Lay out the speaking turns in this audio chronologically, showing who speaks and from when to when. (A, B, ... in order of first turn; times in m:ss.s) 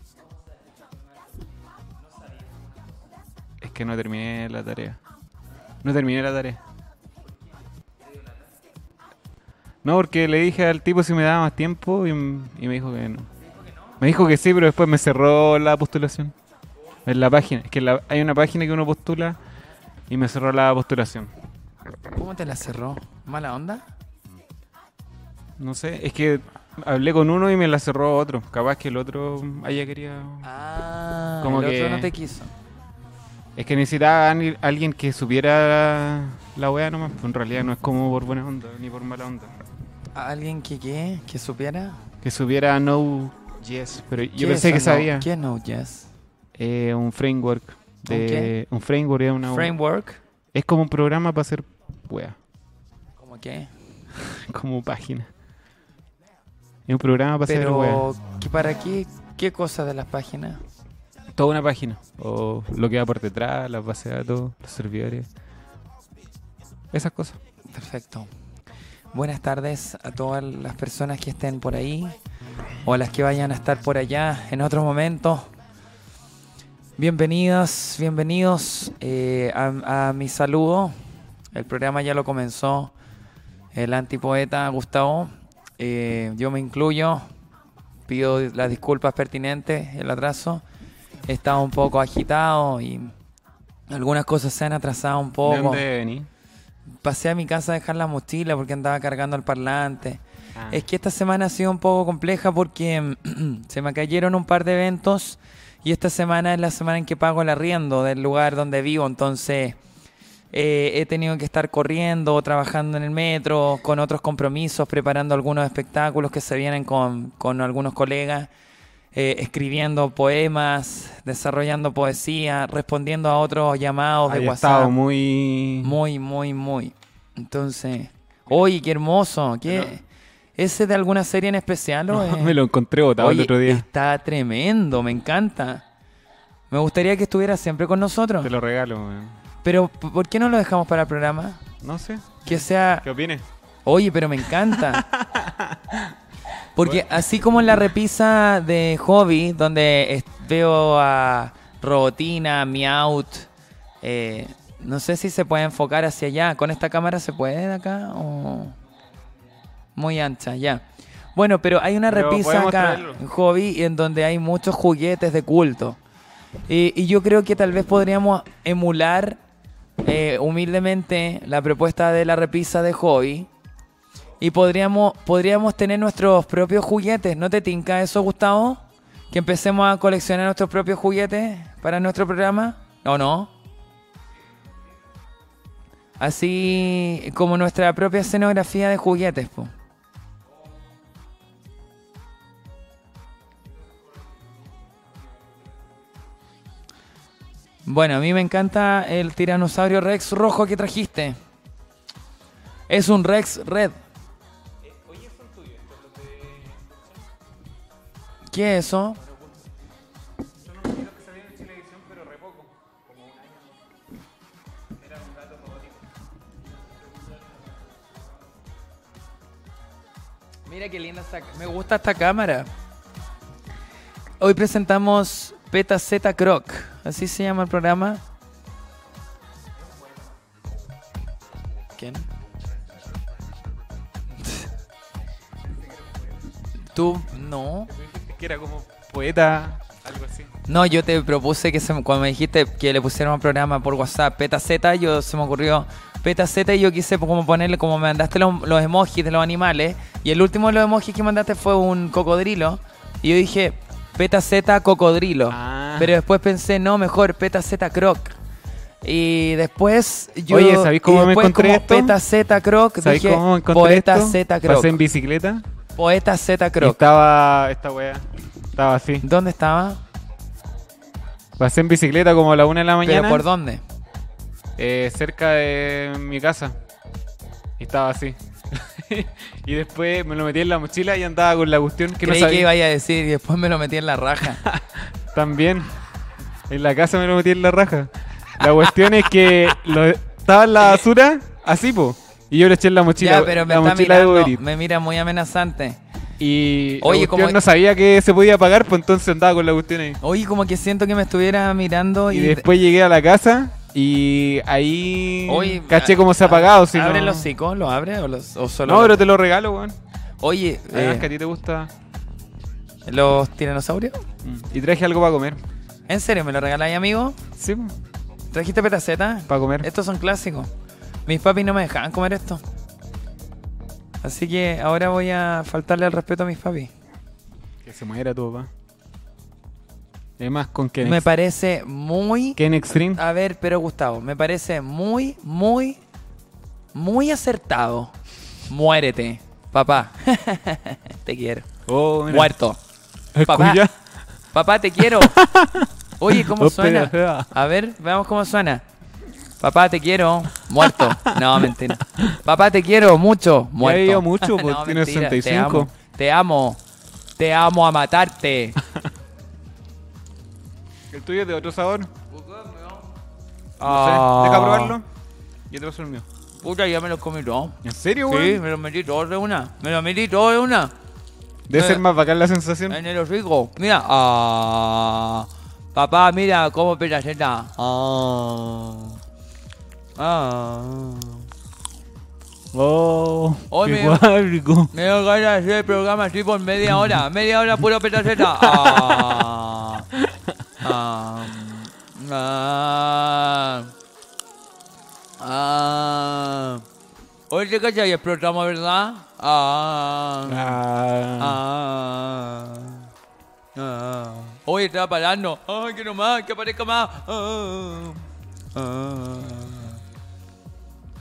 0:02.2-0:02.6 A
0:03.6-0:05.0 B
0:05.8-0:06.6 B
0:09.8-0:13.3 B
0:14.0-0:16.3 B
0:17.0-0:19.4 B
0:20.1-0:21.3 B
0:22.1-0:23.8 A
0:25.6-0:30.5 B
0:30.4-0:32.5 A
0:31.4-0:32.1 B
0:33.6-0:39.5 B
0:40.1-0:42.0 A
0:42.2-0:45.3 B
0:44.4-0:46.1 A
0:46.6-0:49.7 B
0:48.1-0:48.5 A
0:49.5-0:50.2 A
0:50.5-0:52.4 B
0:53.2-0:53.7 A
0:54.2-0:55.3 B
0:56.9-0:58.0 B
0:57.5-1:00.6 A
1:01.3-1:05.3 B
1:06.9-1:07.4 B
1:07.7-1:08.3 A
1:09.1-1:12.2 A
1:12.8-1:15.5 A
1:17.0-1:20.9 A
1:21.5-1:22.9 A
1:23.7-1:27.2 A
1:28.1-1:30.6 A
1:31.3-1:33.1 A
1:33.9-1:35.8 A
1:35.4-1:36.3 B
1:37.0-1:49.8 A
1:40.6-1:40.8 B
1:50.5-1:58.5 A
1:59.1-2:04.9 A
2:04.3-2:06.0 B
2:05.8-2:10.0 A
2:09.7-2:09.9 B
2:10.6-2:12.6 A
2:12.1-2:13.8 B
2:13.2-2:15.8 A
2:16.7-2:18.5 A
2:18.4-2:19.4 B
2:19.6-2:21.6 A
2:21.8-2:23.4 B
2:22.4-2:23.0 A
2:23.8-2:25.0 A
2:24.6-2:26.1 B
2:26.8-2:33.5 A
2:34.0-2:38.8 A
2:40.0-2:40.8 A
2:41.3-2:46.0 A
2:42.1-2:43.2 B
2:46.7-2:49.4 A
2:50.0-2:53.5 A
2:54.4-3:03.5 A
3:06.2-3:09.7 A
3:17.8-3:21.4 A
3:22.9-3:24.0 A
3:24.8-3:27.0 B
3:28.5-3:29.2 A
3:29.2-3:29.7 B
3:30.6-3:33.7 B
3:35.0-3:35.9 B
3:40.7-3:42.7 A
3:44.4-3:48.2 A
3:52.0-3:52.3 A
3:56.9-3:57.9 A
3:57.9-4:00.5 B
4:00.7-4:18.3 A
4:15.5-4:16.1 B
4:19.0-4:24.9 A
4:20.5-4:22.2 B
4:23.0-4:25.6 B
4:26.0-4:27.0 A
4:26.8-4:29.2 B
4:29.2-4:30.0 A
4:31.6-4:33.4 B
4:33.0-4:33.8 A
4:34.8-4:36.8 B
4:37.8-4:42.7 B
4:42.2-4:44.6 A
4:44.6-4:46.0 B
4:46.7-4:54.6 B
4:48.8-4:49.7 A
4:53.2-4:56.0 A
4:56.4-5:00.2 B
4:57.0-4:57.6 A
5:00.2-5:02.6 A
5:02.3-5:07.5 B
5:05.5-5:09.2 A
5:08.8-5:10.0 B
5:10.4-5:11.3 A
5:10.9-5:11.9 B
5:13.0-5:14.2 A
5:14.4-5:15.6 B
5:16.1-5:17.4 A
5:17.6-5:17.9 B
5:18.5-5:20.7 A
5:19.5-5:19.9 B
5:21.3-5:22.6 A
5:24.2-5:26.9 A
5:27.8-5:28.7 B
5:30.4-5:31.2 B
5:31.0-5:36.0 A
5:32.6-5:33.2 B
5:36.9-5:38.1 A
5:38.7-5:41.7 A
5:41.9-5:42.5 B
5:42.3-5:42.8 A
5:43.3-5:43.9 B
5:43.5-5:43.8 A
5:44.5-5:45.4 A
5:45.1-5:47.5 B
5:46.2-5:48.8 A
5:49.6-5:56.8 A
5:50.8-5:52.4 B
5:53.8-5:55.9 B
5:57.4-5:58.8 A
6:01.1-6:02.1 B
6:02.3-6:03.1 A
6:03.8-6:05.0 A
6:03.8-6:05.0 B
6:05.7-6:06.2 B
6:06.6-6:10.9 A
6:07.8-6:08.6 B
6:11.7-6:13.0 B
6:11.7-6:12.0 A
6:12.9-6:19.2 A
6:20.2-6:21.5 A
6:22.7-6:24.9 B
6:23.7-6:24.2 A
6:24.9-6:30.1 A
6:28.4-6:29.4 B
6:30.1-6:30.7 B
6:30.8-6:33.9 A
6:35.4-6:36.8 A
6:37.5-6:40.8 A
6:40.4-6:41.6 B
6:41.4-6:43.1 A
6:43.7-6:50.0 A